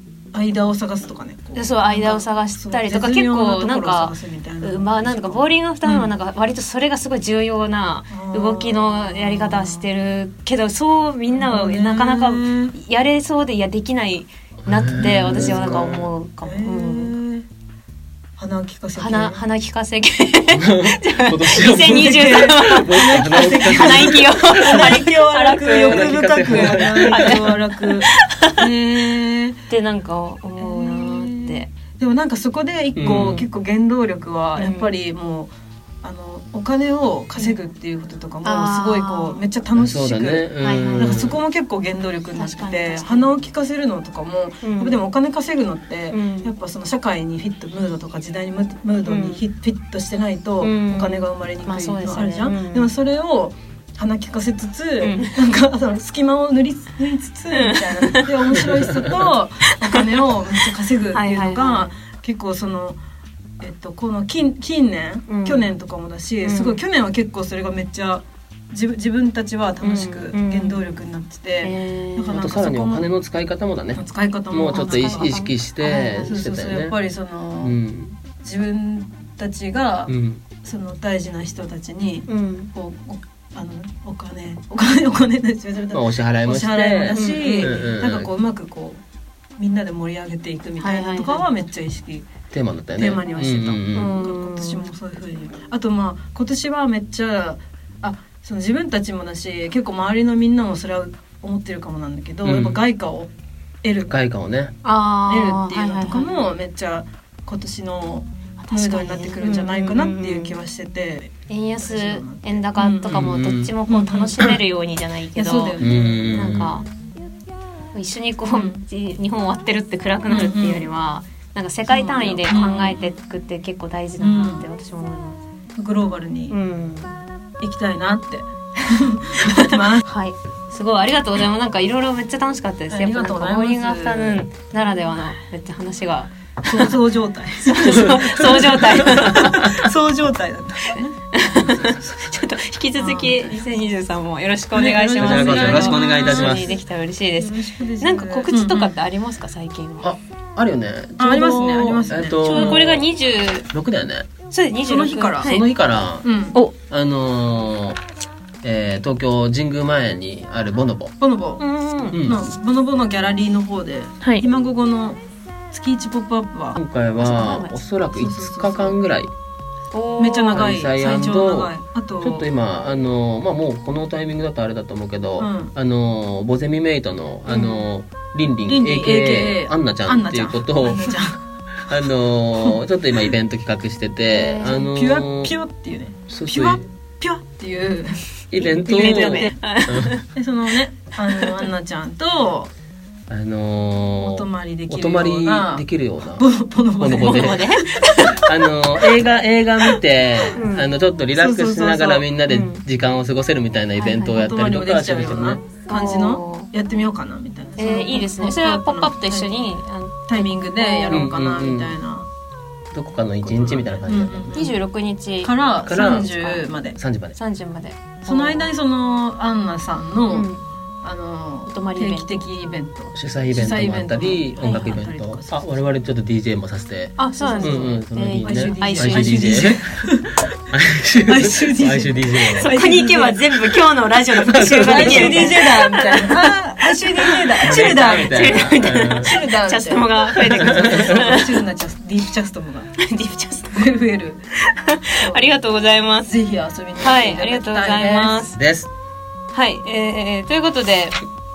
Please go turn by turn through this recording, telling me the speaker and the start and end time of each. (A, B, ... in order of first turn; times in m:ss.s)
0:00.3-0:06.1 A
0:01.6-0:17.1 B
0:08.1-0:09.9 A
0:11.3-0:12.7 A
0:14.6-0:16.1 C
0:15.2-0:15.8 A
0:16.4-0:17.4 A
0:18.4-0:19.4 A
0:19.0-0:28.7 B
0:20.5-0:25.0 C
0:21.7-0:29.6 A
0:25.9-0:27.5 C
0:29.7-0:31.7 B
0:30.6-0:35.5 A
0:33.0-0:33.4 C
0:33.0-0:33.4 B
0:34.6-0:35.0 B
0:36.0-1:03.0 A
0:37.4-0:37.7 B
0:38.4-0:39.4 B
0:39.8-0:41.4 C
0:40.6-0:41.3 B
0:42.4-0:43.3 B
0:44.6-0:45.0 B
0:46.1-0:46.5 B
0:49.0-0:49.4 B
0:50.6-0:52.9 B
0:55.0-0:55.3 B
0:57.5-1:02.0 B
0:58.6-0:59.3 C
1:03.6-1:13.1 A
1:05.3-1:05.7 B
1:06.4-1:06.8 B
1:09.8-1:10.8 B
1:11.6-1:12.4 B
1:12.3-1:17.0 C
1:14.0-1:17.8 A
1:14.6-1:16.3 B
1:17.6-1:18.2 C
1:18.4-1:29.0 A
1:20.1-1:20.4 C
1:22.3-1:22.7 B
1:25.9-1:28.3 C
1:27.1-1:27.8 B
1:29.6-1:32.3 A
1:30.8-1:31.4 B
1:32.5-1:34.2 C
1:33.0-1:43.3 A
1:33.9-1:34.9 B
1:42.4-1:42.8 C
1:43.8-1:44.1 A
1:44.1-1:44.7 C
1:44.8-1:46.5 B
1:45.2-1:53.3 A
1:48.6-1:50.6 B
1:51.5-1:56.9 B
1:53.0-1:53.7 C
1:53.9-1:54.5 A
1:55.3-1:56.5 A
1:55.8-1:56.7 C
1:57.9-2:05.4 B
1:58.5-1:58.8 A
2:00.3-2:00.9 A
2:01.9-2:03.0 A
2:04.2-2:04.7 A
2:05.8-2:06.6 A
2:06.5-2:07.2 B
2:07.6-2:10.0 A
2:09.4-2:17.0 B
2:12.9-2:14.4 A
2:16.7-2:21.9 A
2:17.6-2:19.9 B
2:21.3-2:30.1 B
2:23.0-2:23.7 A
2:24.7-2:26.8 A
2:25.2-2:26.8 C
2:27.4-2:29.0 A
2:30.0-2:33.1 C
2:31.2-2:32.8 A
2:32.4-2:33.7 B
2:33.6-2:34.3 C
2:34.5-2:35.6 B
2:34.9-2:35.6 A
2:35.4-2:36.3 C
2:36.2-2:36.6 A
2:36.8-2:38.0 C
2:38.6-2:41.1 C
2:41.2-2:45.2 A
2:41.6-2:42.2 B
2:42.1-2:42.4 C
2:44.2-2:44.4 B
2:45.7-2:46.8 A
2:46.7-2:49.3 C
2:47.2-2:47.8 B
2:48.1-2:49.0 A
2:49.9-2:50.7 B
2:50.2-2:52.5 A
2:50.5-3:01.2 C
2:55.4-2:55.7 A
2:57.5-2:57.8 A
2:58.6-3:01.4 A
3:01.9-3:05.5 C
3:04.3-3:04.8 B
3:04.6-3:09.5 A
3:06.3-3:06.8 C
3:08.5-3:10.2 C
3:08.6-3:10.2 B
3:10.3-3:12.7 A
3:11.3-3:11.7 B
3:13.3-3:16.4 C
3:14.2-3:17.9 A
3:17.0-3:17.7 C
3:17.1-3:18.5 B
3:18.3-3:25.6 C
3:20.5-3:20.9 B
3:21.4-3:22.3 A
3:22.5-3:22.8 B
3:24.0-3:24.4 B
3:24.2-3:29.5 A
3:25.9-3:26.7 B
3:27.8-3:31.3 B
3:30.3-3:32.3 A
3:31.1-3:32.0 C
3:32.9-3:34.7 C
3:33.4-3:34.8 A
3:34.5-3:36.6 B
3:35.4-3:37.0 A
3:35.8-3:36.3 C
3:37.0-3:37.4 C
3:37.4-3:38.7 B
3:38.2-3:40.5 A
3:40.3-3:40.6 B
3:41.0-3:45.8 A
3:41.7-3:42.4 B
3:43.1-3:49.8 C
3:44.6-3:45.0 B
3:47.2-3:49.8 B
3:47.4-3:47.9 A
3:48.4-3:50.5 A
3:50.7-3:52.7 C
3:51.2-3:53.7 A
3:52.5-4:01.5 B
3:54.4-3:55.6 C
3:54.7-4:02.9 A
3:57.6-3:59.3 C
4:00.6-4:01.3 C
4:03.0-4:03.9 B
4:03.7-4:04.4 A
4:04.6-4:06.3 B
4:05.2-4:05.5 A
4:06.2-4:08.5 A
4:07.0-4:08.6 B
4:08.6-4:08.9 C
4:09.5-4:11.2 B